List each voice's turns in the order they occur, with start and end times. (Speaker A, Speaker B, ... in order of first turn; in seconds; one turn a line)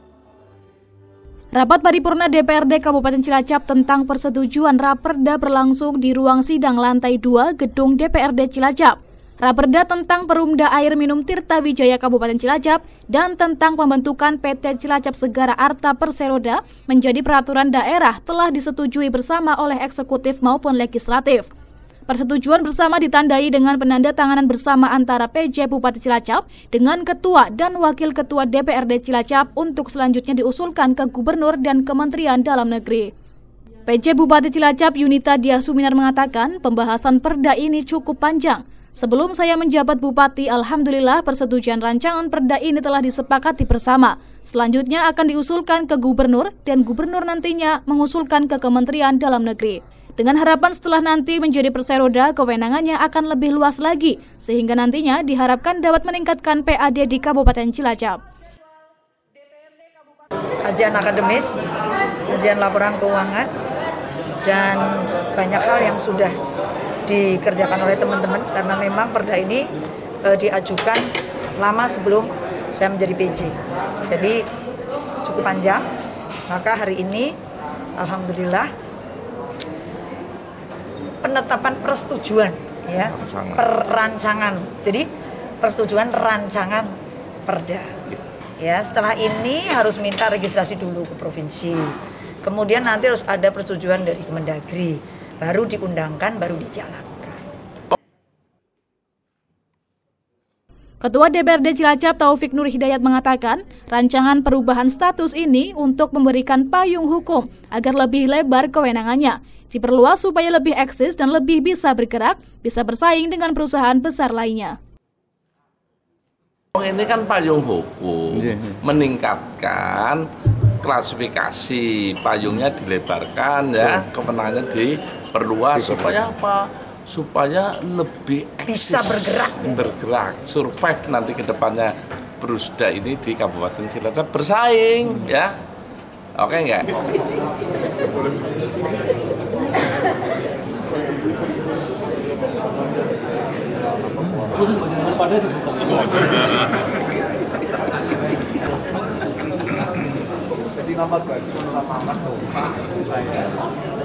Speaker A: 1.5-21.5
Speaker A: 22.1-33.1
Speaker A: 33.9-58.2
Speaker B: 60.6-61.6
Speaker B: 62.3-63.5
Speaker B: 64.4-66.4
Speaker B: 67.1-74.4
Speaker B: 75.2-75.9
Speaker B: 76.5-77.3
Speaker B: 78.0-78.7
Speaker B: 81.2-85.1
Speaker C: 83.0-83.6
Speaker B: 85.6-86.9
Speaker B: 87.5-97.4
Speaker A: 101.0-114.8
Speaker C: 116.7-120.3
Speaker C: 120.8-135.6
Speaker B: 128.7-129.6
Speaker C: 136.4-137.0